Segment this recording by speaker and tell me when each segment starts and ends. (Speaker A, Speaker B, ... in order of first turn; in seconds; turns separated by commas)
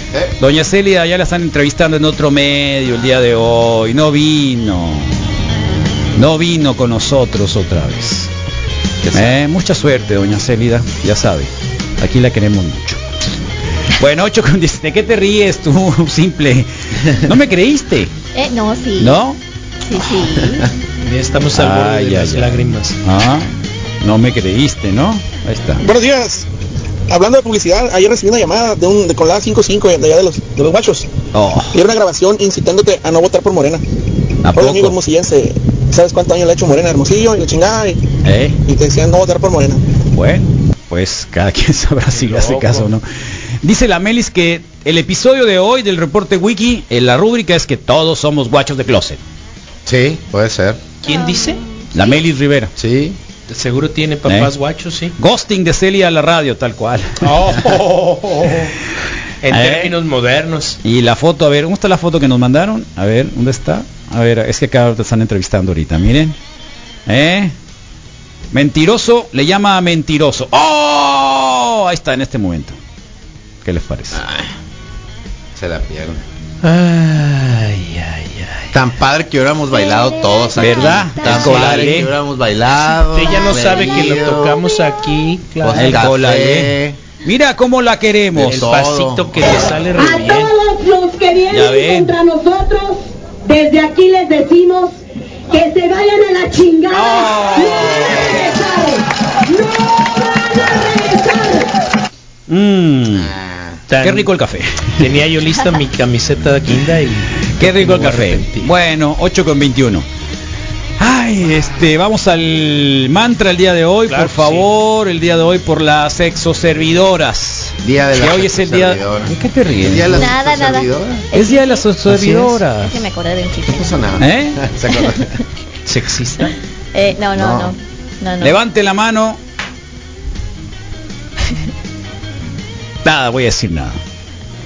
Speaker A: 0.4-5.3, Speaker A: 6.2-8.3, Speaker B: 9.0-9.3, Speaker A: 9.1-13.0, Speaker A: 14.0-18.1, Speaker C: 18.3-19.2, Speaker A: 19.0-19.4, Speaker C: 19.8-20.6, Speaker D: 21.0-23.0, Speaker A: 21.5-23.5, Speaker A: 24.0-25.8, Speaker E: 25.8-26.4, Speaker E: 27.1-31.1, Speaker A: 31.3-31.8, Speaker E: 31.8-33.8, Speaker A: 34.4-35.0, Speaker E: 34.6-37.9, Speaker A: 38.2-38.6, Speaker E: 38.7-39.8, Speaker A: 40.1-43.0, Speaker D: 42.1-42.9, Speaker A: 43.6-49.2, Speaker B: 49.9-50.9, Speaker D: 51.0-51.6, Speaker C: 51.0-52.2, Speaker A: 51.9-52.7, Speaker B: 52.8-53.2, Speaker D: 53.5-55.1, Speaker A: 54.3-54.5, Speaker A: 55.2-57.3, Speaker D: 57.2-58.7, Speaker D: 59.4-60.8, Speaker A: 59.5-59.9, Speaker A: 60.8-66.4, Speaker A: 67.1-67.5, Speaker A: 68.5-72.8, Speaker A: 73.6-74.2, Speaker B: 74.1-74.5, Speaker B: 75.5-76.2, Speaker D: 76.6-78.7, Speaker B: 78.7-84.6, Speaker C: 79.7-81.1, Speaker A: 80.5-82.1, Speaker D: 81.2-82.0, Speaker D: 83.1-86.1, Speaker B: 85.6-87.0, Speaker A: 85.8-86.7, Speaker A: 87.2-88.7, Speaker B: 88.3-89.4, Speaker D: 88.4-90.5, Speaker F: 90.0-95.0, Speaker A: 91.5-92.1, Speaker F: 95.5-101.7, Speaker A: 96.9-98.4, Speaker A: 102.5-103.3, Speaker B: 103.1-103.8, Speaker D: 103.9-104.3, Speaker A: 104.0-104.9, Speaker D: 105.0-108.7, Speaker A: 107.6-110.0, Speaker A: 111.0-120.3, Speaker D: 114.1-114.7, Speaker B: 117.8-121.2, Speaker C: 120.1-121.9, Speaker A: 121.3-123.0, Speaker C: 122.8-123.8, Speaker B: 123.7-125.3, Speaker A: 124.2-124.6, Speaker D: 125.8-126.5, Speaker C: 126.9-128.6, Speaker B: 127.3-127.7, Speaker A: 128.4-129.4, Speaker A: 133.0-134.0